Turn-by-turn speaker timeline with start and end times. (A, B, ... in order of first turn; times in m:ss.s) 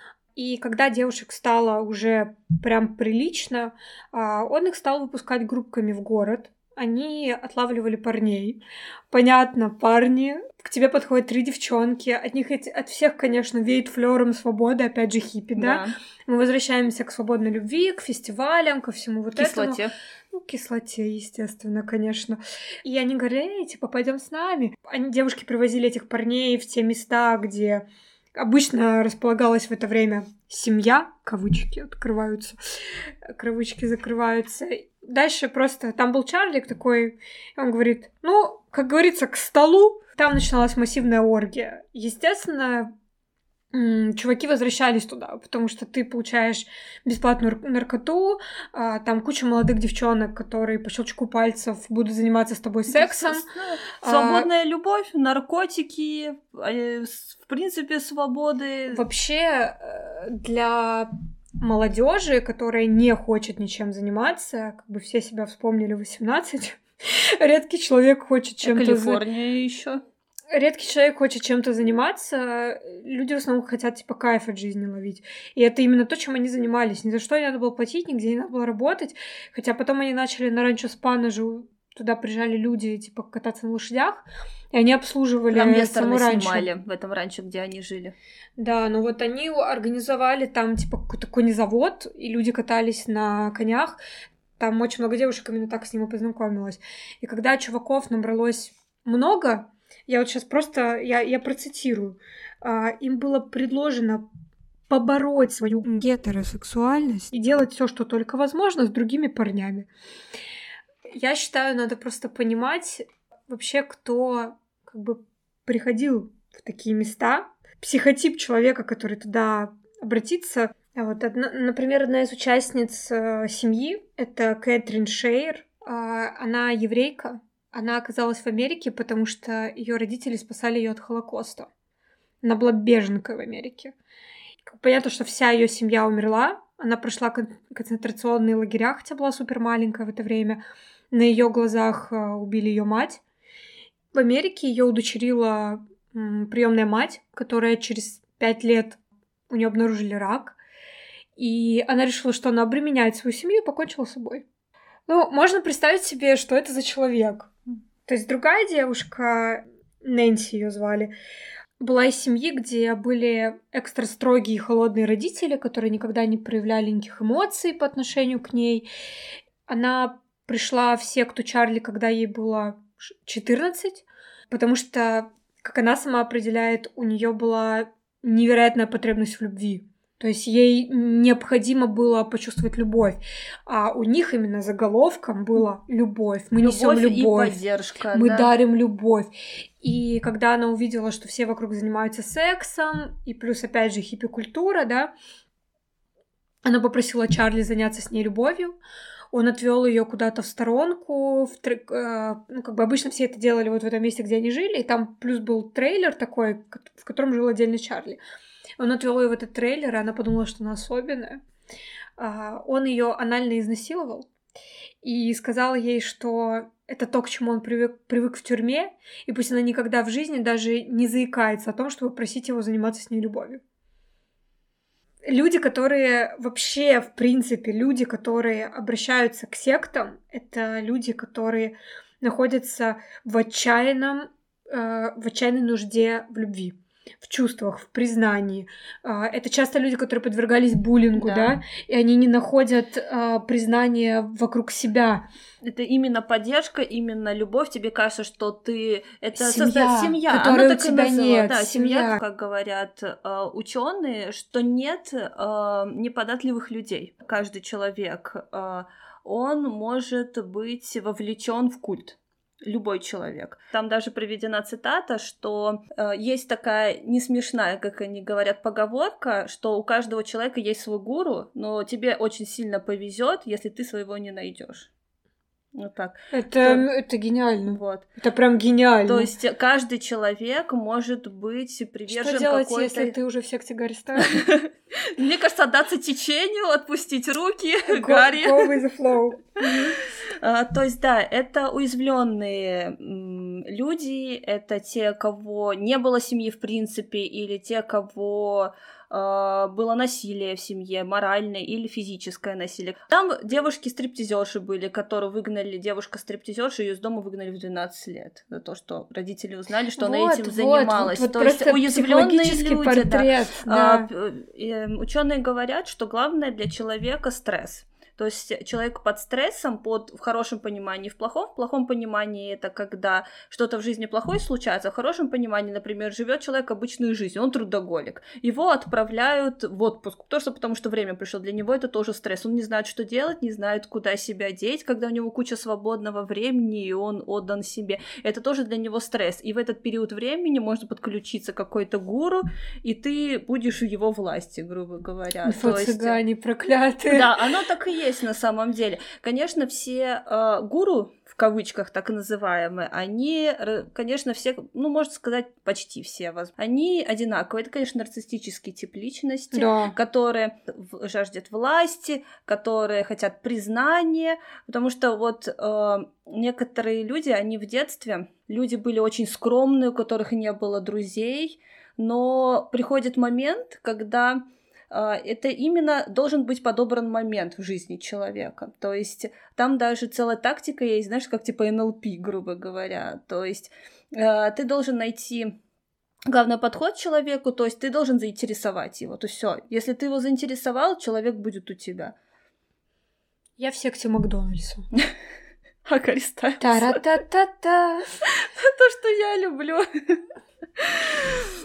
0:00.3-0:42.9 A
0:15.6-0:15.9 B
0:19.3-0:19.9 B
0:43.7-0:53.5 A
0:52.9-0:59.0 B
0:54.0-0:54.5 A
0:58.9-1:09.2 A
1:08.6-1:10.0 B
1:10.5-1:26.7 A
1:25.5-1:28.1 B
1:28.6-1:34.0 A
1:34.6-1:44.2 A
1:44.9-1:49.9 A
1:51.1-2:11.7 A
2:12.4-2:13.9 A
2:14.6-2:23.2 A
2:24.1-2:30.6 A
2:31.4-2:34.4 A
2:35.1-2:37.5 A
2:38.0-2:41.1 A
2:41.8-2:48.9 A
2:49.7-3:07.6 A
3:06.6-3:08.5 B
3:08.1-3:15.1 A
3:16.6-3:18.8 A
3:19.3-3:28.2 A
3:28.8-3:31.4 A
3:32.2-3:34.3 A
3:35.0-3:43.6 A
3:45.2-4:05.2 A
4:01.2-4:01.5 B
4:05.6-4:34.9 B
4:09.4-4:12.2 A
4:35.7-4:36.9 B
4:36.3-4:39.3 A
4:37.6-4:38.1 B
4:39.0-4:43.1 B
4:42.1-4:44.5 A
4:44.2-4:48.7 B
4:47.9-4:49.9 A
4:49.6-5:46.2 B
5:10.0-5:14.1 A
5:45.4-5:47.4 A
5:47.1-6:25.6 B
5:59.5-6:00.0 A
6:26.3-6:32.1 B
6:33.6-6:34.8 A
6:35.8-6:37.0 B
6:36.6-6:38.0 A
6:38.2-6:40.2 B
6:40.8-6:41.5 B